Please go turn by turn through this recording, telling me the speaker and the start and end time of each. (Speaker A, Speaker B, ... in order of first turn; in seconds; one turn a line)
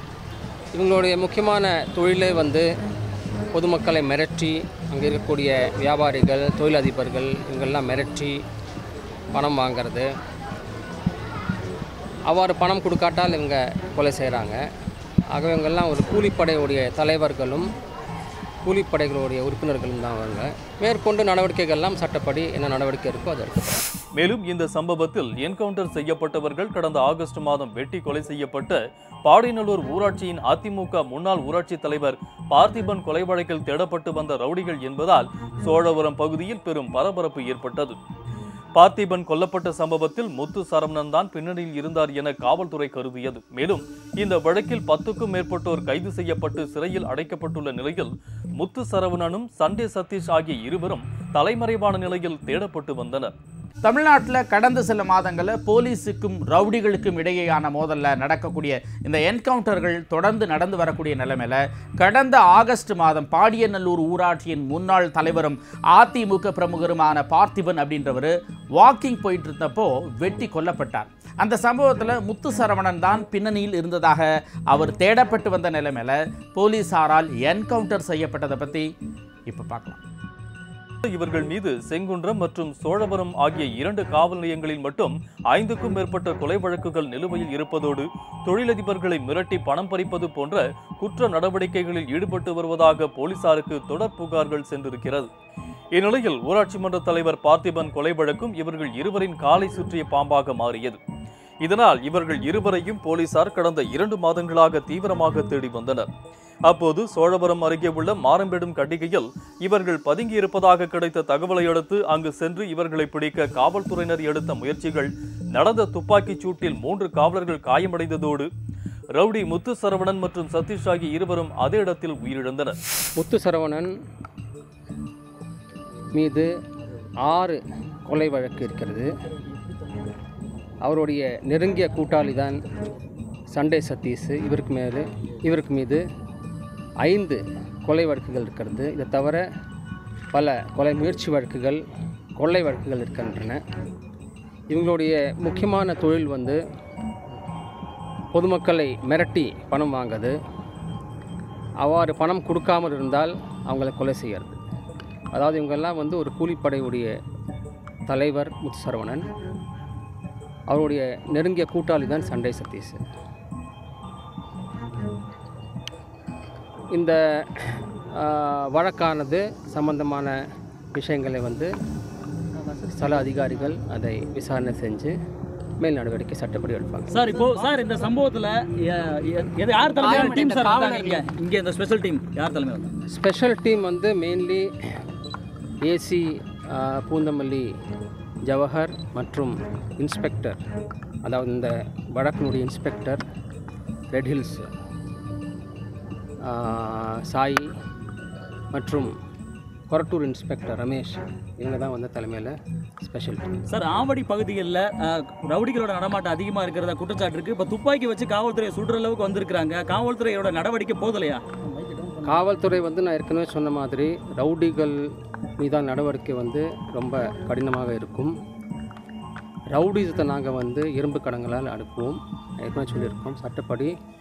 Speaker A: 0.7-2.6
Speaker A: 3.5-8.4
Speaker A: 9.3-10.1
Speaker A: 12.3-14.6
Speaker A: 15.3-17.7
Speaker A: 18.6-23.8
Speaker B: 24.1-38.0
Speaker B: 38.8-53.3
Speaker C: 53.8-78.9
Speaker C: 79.5-80.0
Speaker B: 81.0-95.3
Speaker B: 95.9-101.0
Speaker B: 101.6-106.1
Speaker B: 106.7-118.5
Speaker B: 119.2-122.8
Speaker A: 123.2-123.9
Speaker A: 126.1-126.5
Speaker A: 127.2-129.1
Speaker A: 130.8-132.6
Speaker A: 133.5-136.0
Speaker A: 137.0-139.4
Speaker A: 140.3-141.8
Speaker A: 142.4-143.6
Speaker A: 144.7-146.6
Speaker A: 148.3-150.3
Speaker A: 151.8-154.6
Speaker A: 155.3-157.1
Speaker A: 158.1-159.2
Speaker A: 160.7-163.0
Speaker A: 166.9-170.3
Speaker A: 170.9-171.7
Speaker A: 172.8-175.1
Speaker A: 175.8-177.1
Speaker D: 177.1-182.9
Speaker A: 183.1-184.7
Speaker A: 185.8-187.7
Speaker A: 188.5-190.6
Speaker A: 191.2-193.2
Speaker A: 194.1-194.7
Speaker A: 196.4-197.7
Speaker A: 198.7-199.1
Speaker A: 199.9-203.5
Speaker D: 203.7-212.3
Speaker A: 212.2-215.0
Speaker A: 215.6-218.3
Speaker A: 219.7-223.9